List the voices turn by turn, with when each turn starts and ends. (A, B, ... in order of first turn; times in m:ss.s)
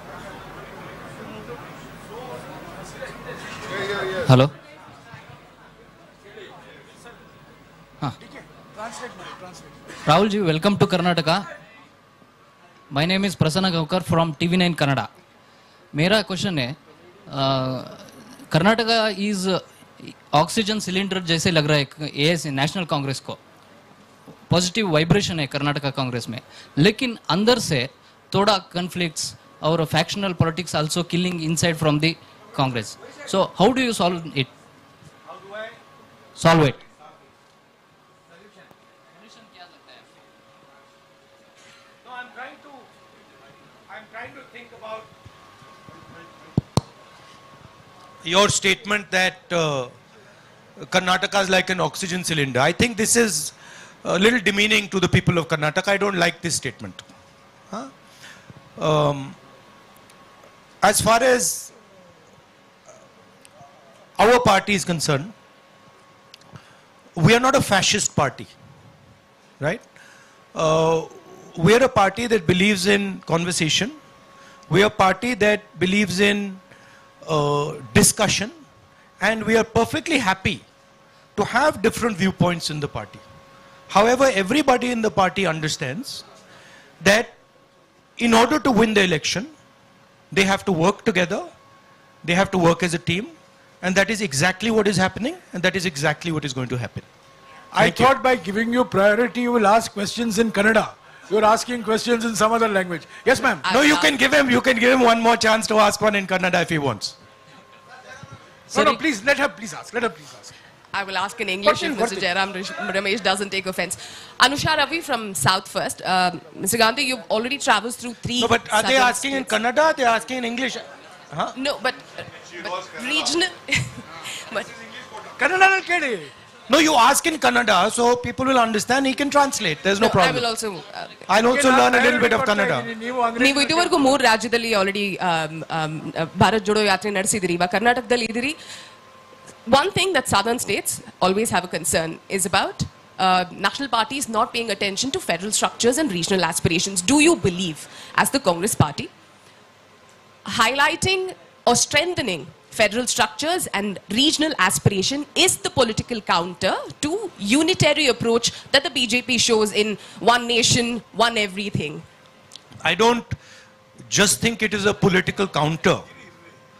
0:04.2-0:04.5 A
0:08.3-0:09.6 B
0:10.0-0:11.4 A
0:12.9-0:15.1 A
0:15.9-0:16.8 A
0:17.3-0:23.4 A
0:24.5-0:34.5 A
0:36.4-0:36.8 A
0:44.1-0:45.0 C
0:48.2-0:49.9 C
0:50.9-0:57.0 C
0:58.8-0:59.4 C
1:00.8-1:01.7 C
1:04.2-1:05.3 C
1:07.2-1:08.5 C
1:10.5-1:14.0 C
1:14.7-1:16.6 C
1:17.2-1:18.5 C
1:19.2-1:20.6 C
1:21.4-1:23.2 C
1:23.9-1:26.2 C
1:27.0-1:27.3 C
1:28.2-1:29.5 C
1:30.3-1:31.5 C
1:32.2-1:37.0 C
1:37.7-1:43.6 B
1:37.8-1:38.1 C
1:43.6-1:44.1 D
1:43.7-1:47.1 C
1:48.7-1:50.5 B
1:48.7-1:49.0 D
1:50.9-1:59.5 D
1:51.6-1:52.3 B
1:58.4-2:01.5 C
2:01.6-2:04.7 D
2:05.4-2:06.3 B
2:06.7-2:10.5 C
2:10.0-2:11.2 D
2:11.3-2:12.9 C
2:11.5-2:13.9 B
2:13.4-2:18.6 D
2:19.6-2:29.1 D
2:30.5-2:42.0 D
2:42.8-2:43.3 C
2:44.1-2:46.0 C